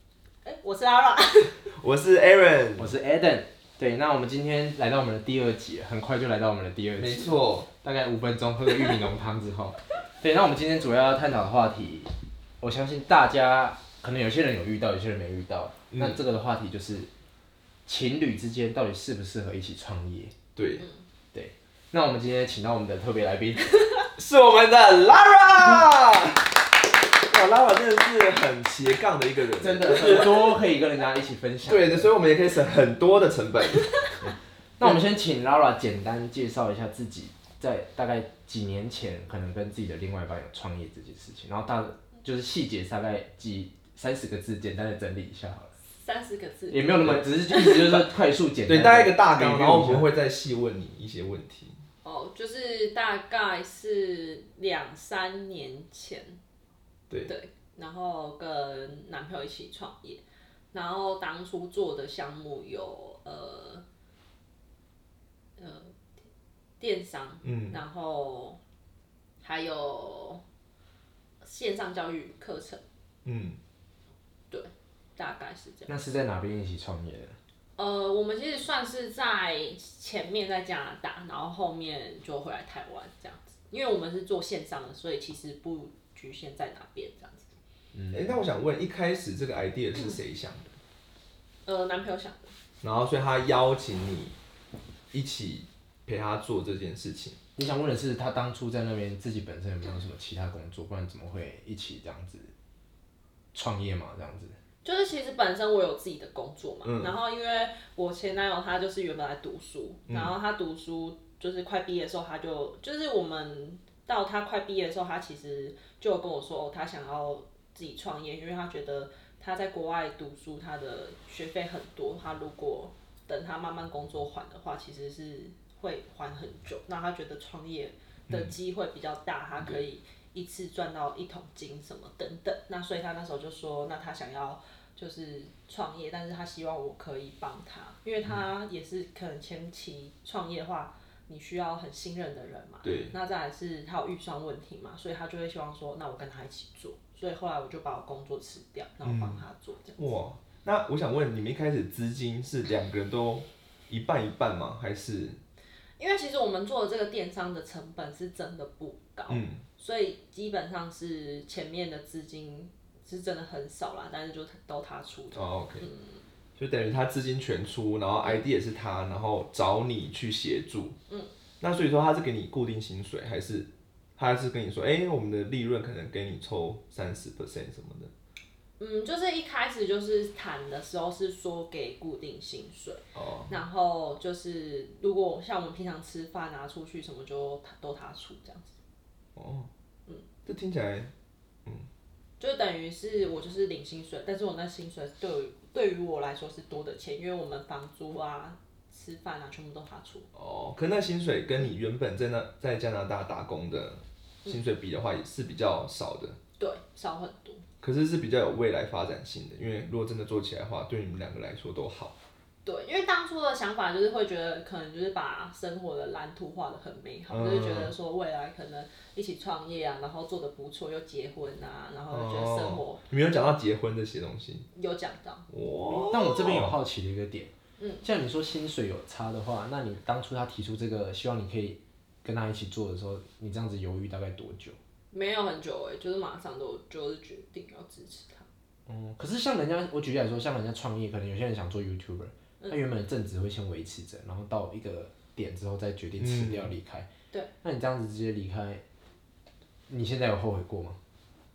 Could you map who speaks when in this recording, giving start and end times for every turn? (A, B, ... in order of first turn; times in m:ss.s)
0:00.4-0:01.6 A
0:01.7-0:02.9 B
0:02.8-0:17.1 C
0:07.0-0:07.7 B
0:15.9-0:16.2 B
0:17.9-0:20.3 C
0:20.6-0:20.9 B
0:21.3-0:23.8 C
0:24.2-0:26.6 B
0:27.3-0:30.5 B
0:29.6-0:32.1 C
0:31.7-0:34.0 B
0:34.2-0:45.7 C
0:45.9-0:47.9 A
0:46.7-0:50.1 C
0:48.7-0:51.8 B
0:52.0-0:56.4 A
0:57.3-1:00.2 A
1:00.7-1:03.8 A
1:05.6-1:05.9 A
1:06.8-1:08.6 A
1:07.4-1:07.8 B
1:09.4-1:10.4 A
1:11.4-1:12.8 A
1:13.2-1:13.6 B
1:14.5-1:16.1 A
1:15.9-1:17.4 C
1:17.8-1:27.5 A
1:27.9-1:28.4 C
1:28.1-1:30.7 B
1:31.7-1:32.6 A
1:32.8-1:34.4 B
1:35.1-1:37.4 B
1:37.6-1:42.5 C
1:43.5-1:44.6 C
1:44.8-2:30.2 A
1:46.8-1:47.1 B
1:50.1-1:50.3 B
2:22.8-2:23.1 B
2:29.0-2:29.4 B
2:30.0-2:35.4 B
2:36.0-2:46.2 A
2:39.3-2:39.6 B
2:45.3-2:45.8 B
2:46.6-2:51.0 B
2:51.6-2:58.1 B
2:58.8-3:08.8 A
3:03.2-3:03.6 B
3:09.4-3:09.7 B
3:10.4-3:11.1 B
3:12.4-3:20.3 A
3:20.3-3:26.4 B
3:26.6-3:27.6 A
3:27.8-3:32.2 B
3:32.6-3:43.0 A
3:37.3-3:37.9 B
3:42.1-3:44.7 B
3:44.7-3:45.4 A
3:45.5-3:46.8 B
3:45.9-3:47.5 C
3:47.8-3:48.0 A
3:48.0-3:54.8 C
3:55.1-3:58.5 A
3:58.9-4:07.1 C
4:06.2-4:06.7 B
4:07.6-4:08.8 C
4:09.9-4:11.0 C